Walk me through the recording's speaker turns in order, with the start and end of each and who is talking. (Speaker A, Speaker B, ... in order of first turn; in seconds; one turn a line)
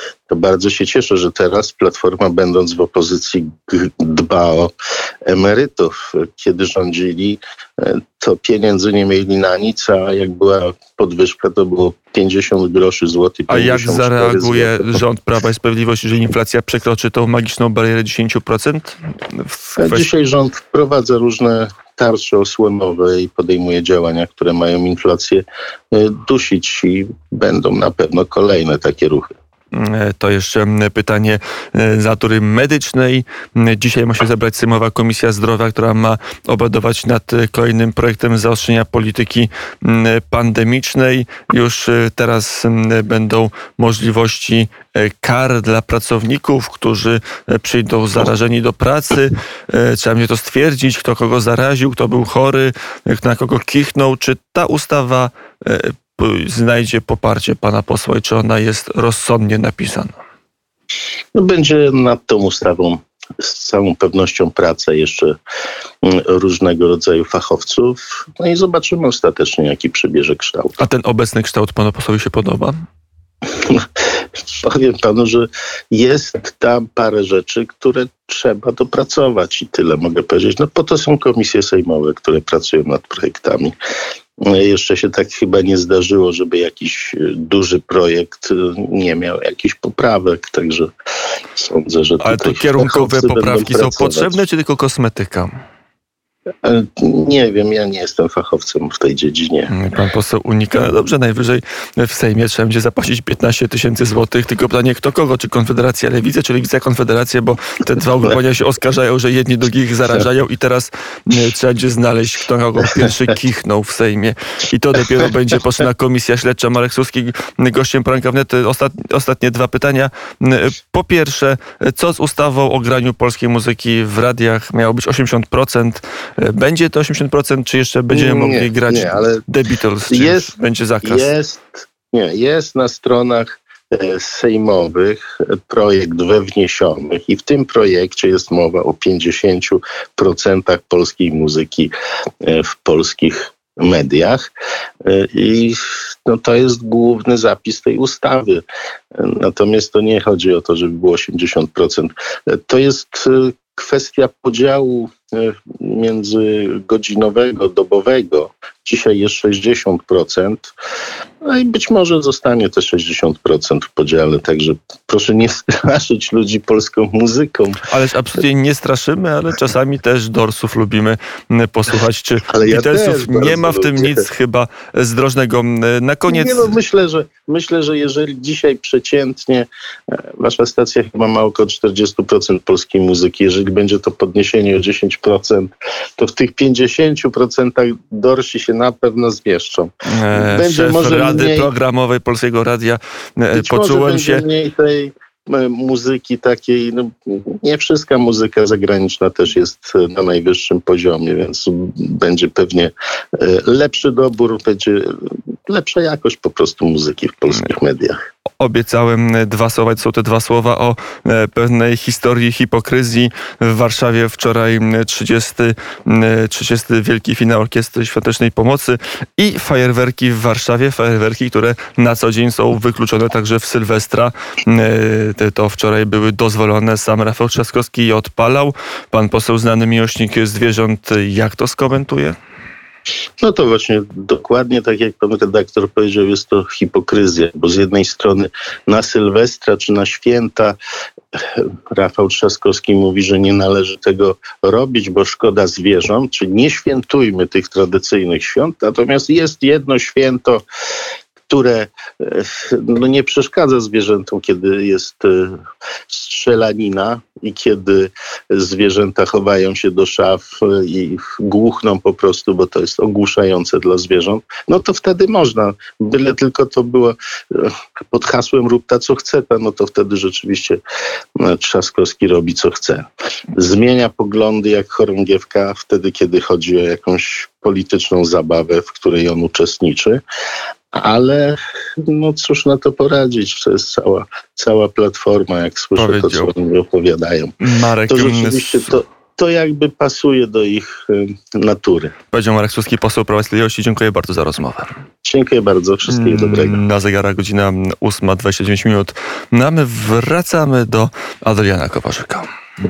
Speaker A: 0.3-4.7
Speaker A: 5.3-15.0
Speaker B: 13.5-20.1
Speaker A: 19.8-29.3
Speaker B: 29.7-60.1
Speaker A: 61.4-65.4
Speaker A: 66.0-70.8
Speaker B: 70.8-72.8
Speaker A: 73.6-73.9
Speaker A: 74.4-83.8
Speaker A: 84.4-90.9
Speaker A: 91.5-94.4
Speaker B: 92.2-95.5
Speaker A: 96.6-99.7
Speaker B: 99.7-131.3
Speaker A: 128.1-129.4
Speaker A: 130.1-130.5
Speaker A: 131.0-141.9
Speaker A: 142.4-144.4
Speaker A: 145.0-160.7
Speaker A: 161.4-167.8
Speaker B: 167.9-176.7
Speaker A: 172.5-174.2
Speaker A: 176.3-191.7
Speaker B: 190.1-194.4
Speaker A: 193.5-208.2
Speaker B: 208.6-232.4
Speaker A: 233.4-240.8
Speaker A: 241.3-250.6
Speaker A: 251.5-270.8
Speaker A: 271.4-280.2
Speaker A: 280.9-292.1
Speaker B: 286.0-286.5
Speaker B: 287.6-288.9
Speaker B: 292.3-294.9
Speaker A: 295.2-296.8
Speaker B: 296.1-302.5